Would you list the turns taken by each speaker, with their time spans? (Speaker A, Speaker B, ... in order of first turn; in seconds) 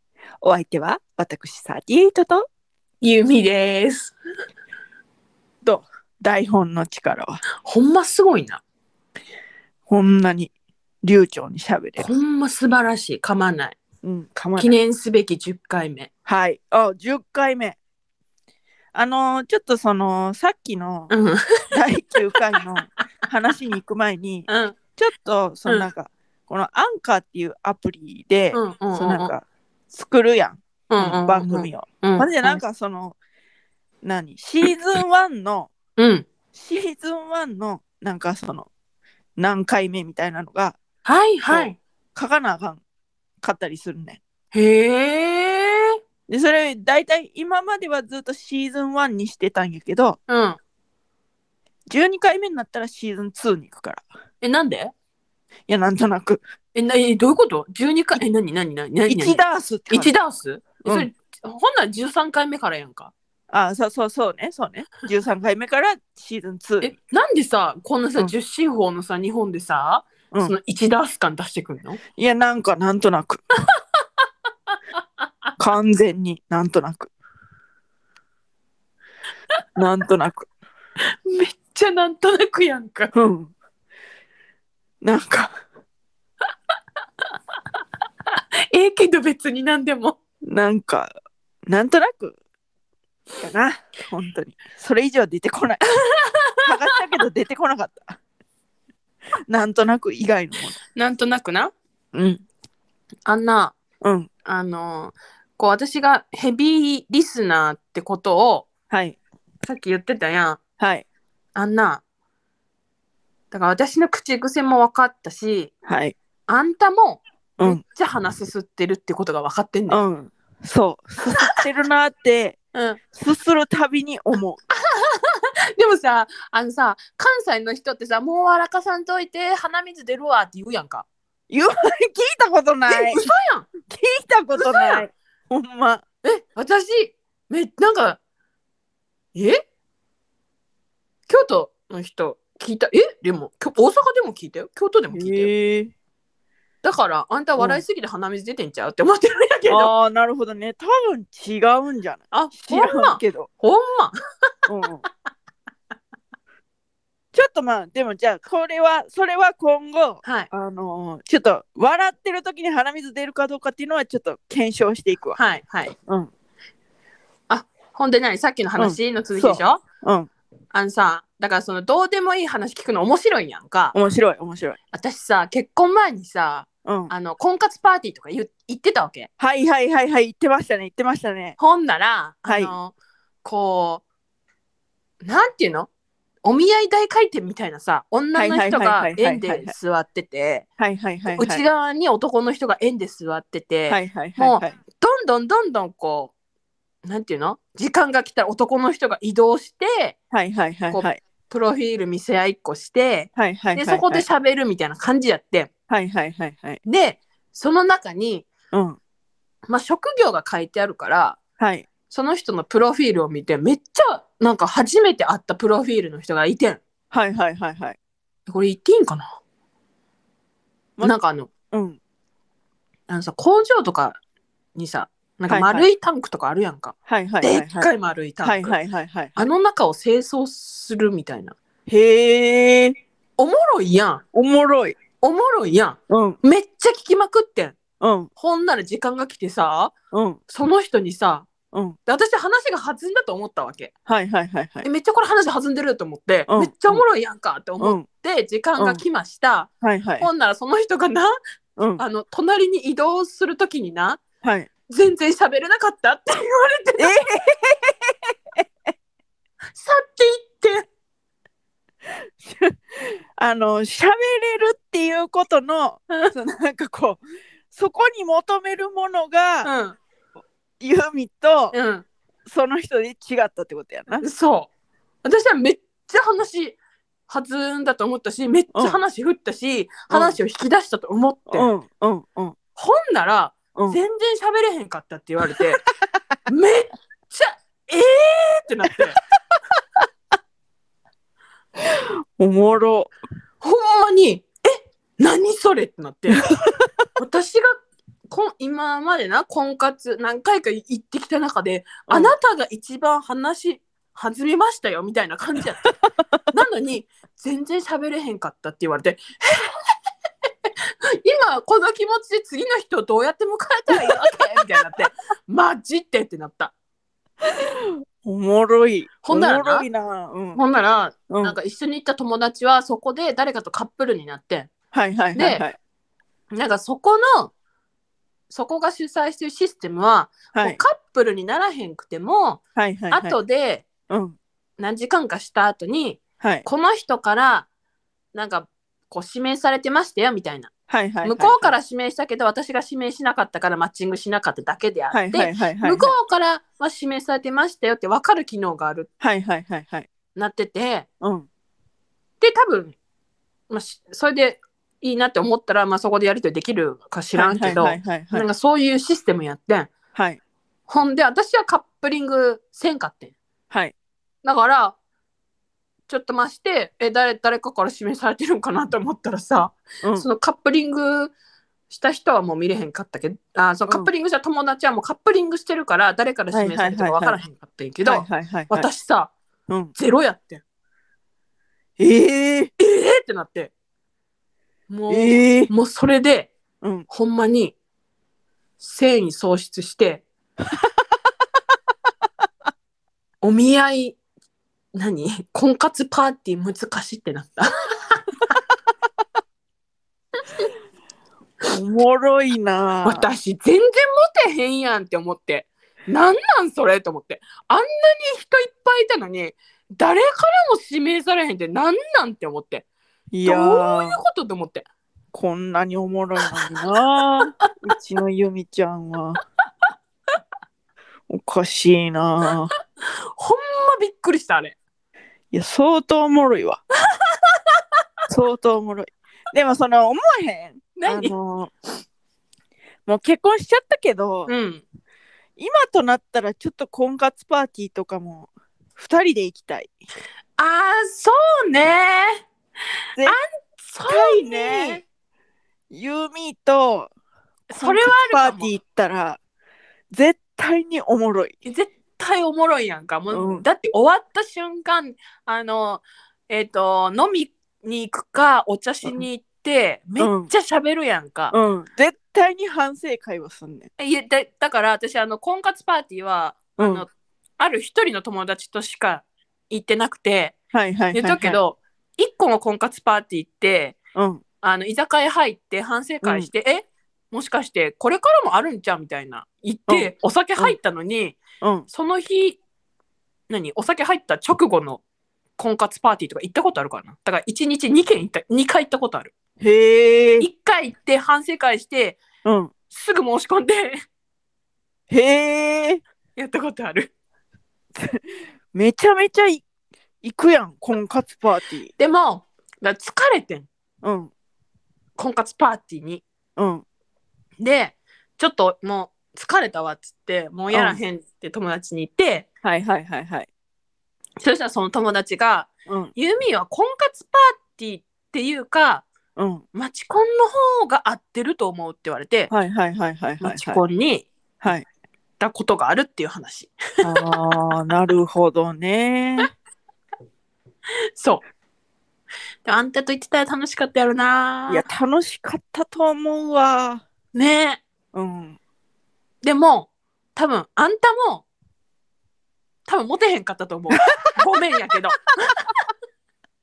Speaker A: 0.4-2.5, 5.6-7.4, 9.9-10.5, 11.0-12.1, 14.0-14.7, 16.2-17.8, 18.9-21.1, 21.7-33.1, 34.0-35.7, 36.5-38.7, 39.4-40.8, 41.5-42.8, 43.4-44.2, 46.3-50.2, 51.9-54.0, 55.7-56.4, 59.1-60.1, 63.5-66.9, 72.2-73.4, 75.6-77.1, 79.8-80.5, 83.1-83.5, 85.0-85.5, 90.5-91.1, 91.7-92.4, 93.4-95.8, 96.6-98.2, 99.5-100.8, 102.1-102.4, 104.0-104.3, 108.9-109.2, 110.8-111.0, 115.8-116.1, 119.9-122.6, 123.1-124.6, 131.5-133.2, 133.9-136.0, 145.1-145.9, 147.6-147.8, 149.7-153.5, 154.7-155.0, 157.3-165.4, 168.8-170.3, 173.9-174.8, 176.8-177.1, 179.4-181.6, 182.4-182.7, 188.3-189.7, 190.8-191.6, 193.9-194.7, 200.3-201.2, 203.3-204.2, 205.9-206.8, 208.7-209.0, 211.6-211.9, 217.1-218.0, 221.7-222.0, 225.5-225.8, 227.1-227.9, 228.4-229.4, 231.9-232.9, 234.3-235.0, 236.1-236.4, 238.0-238.3, 240.1-240.4, 241.7-242.0, 244.1-244.9, 246.5-247.0, 247.8-248.0, 249.8-250.3, 251.8-252.0, 254.4-254.7, 257.0-258.6, 262.4-269.7, 270.8-271.7, 272.4-274.2, 278.7-279.0, 280.1-280.4, 281.5-282.6, 291.9-293.1, 296.4-296.9, 302.1-302.3, 317.5-320.6, 321.3-321.6, 324.9-325.8, 330.5-330.8, 332.8-333.4, 334.1-334.4, 336.4-336.6, 340.9-341.7, 345.1-346.1, 349.2-350.1, 351.2-351.5, 357.3-358.5, 376.5-377.4, 378.0-378.9, 382.0-382.7, 385.1-385.7, 401.7-403.3, 413.3-414.2, 415.3-419.4, 421.3-422.7, 425.5-426.8, 428.3-431.7, 433.1-434.5, 435.6-439.9, 444.1-445.0, 445.9-447.1, 447.8-449.4, 450.1-451.5, 453.3-453.6, 460.2-460.5, 461.5-463.9, 466.8-467.0, 470.7-471.6, 474.1-474.4, 476.2-476.5, 479.9-480.8, 481.6-481.9, 489.6-490.5, 492.4-492.7, 495.1-496.0, 498.7-499.6, 500.2-501.9, 504.0-504.3, 506.6-506.8, 510.7-511.0, 512.6-513.5, 519.4-519.6, 522.5-523.8, 524.6-524.9, 527.0-529.5, 534.7-537.0, 538.1-538.6
Speaker B: 3.0-4.1, 7.6-8.6, 12.0-13.8, 14.6-16.1, 21.1-21.4, 24.5-24.8, 28.5-29.3, 30.9-32.6, 36.0-36.2, 41.0-41.8, 44.5-46.0, 50.3-50.6, 54.4-54.9, 56.7-63.1, 66.8-72.0, 81.3-83.1, 88.7-90.2, 96.1-97.0, 100.9-101.7, 103.2-103.8, 104.5-108.7, 109.6-110.6, 111.5-112.0, 113.5-115.7, 116.5-120.0, 122.7-123.0, 124.8-131.1, 132.9-133.7, 134.6-135.0, 136.2-138.2, 139.3-139.6, 141.3-145.5, 146.8-149.9, 152.3-154.2, 160.2-160.5, 165.3-165.9, 167.5-169.8, 170.7-173.9, 174.9-179.3, 181.6-182.9, 183.4-184.0, 185.2-185.9, 186.4-190.7, 191.3-196.3, 197.0-200.2, 200.9-205.7, 206.8-208.5, 209.7-211.4, 212.1-216.8, 218.5-219.3, 221.0-221.5, 223.1-224.2, 224.7-228.8, 229.3-231.6, 233.4-234.2, 235.2-237.8, 238.4-239.9, 240.5-241.5, 242.1-243.9, 244.8-251.3, 252.0-254.2, 254.9-257.2, 259.8-260.9, 269.6-270.0, 271.7-272.1, 274.2-274.7, 275.2-281.7, 282.8-285.8, 286.5-289.2, 293.6-296.5, 297.2-305.9, 306.5-309.7, 311.1-316.7, 319.2-319.9, 320.5-324.7, 325.4-325.6, 326.5-327.5, 328.5-333.9, 334.8-337.7, 338.3-340.7, 341.2-349.1, 350.3-351.1, 352.4-352.9, 353.7-359.9, 360.9-363.3, 364.4-364.9, 366.1-371.3, 371.9-379.3, 379.9-380.6, 382.8-383.7, 384.9-386.5, 387.1-387.8, 388.8-390.2, 393.4-394.2, 394.9-398.2, 403.0-412.9, 413.4-414.9, 423.4-424.8, 427.3-427.8, 430.9-431.3, 434.5-434.8, 440.6-442.4, 443.2-445.0, 447.7-448.7, 451.6-461.5, 464.0-470.6, 471.1-474.0, 474.6-481.4, 481.9-482.6, 483.5-485.0, 485.6-489.3, 490.4-492.2, 492.9-494.0, 496.4-497.1, 502.0-503.7, 505.2-506.2, 507.6-512.5, 514.4-519.0, 519.7-522.5, 523.4-524.3, 525.4-527.1, 531.2-531.4, 532.6-534.9, 537.3-537.8, 539.4-541.5, 542.9-545.7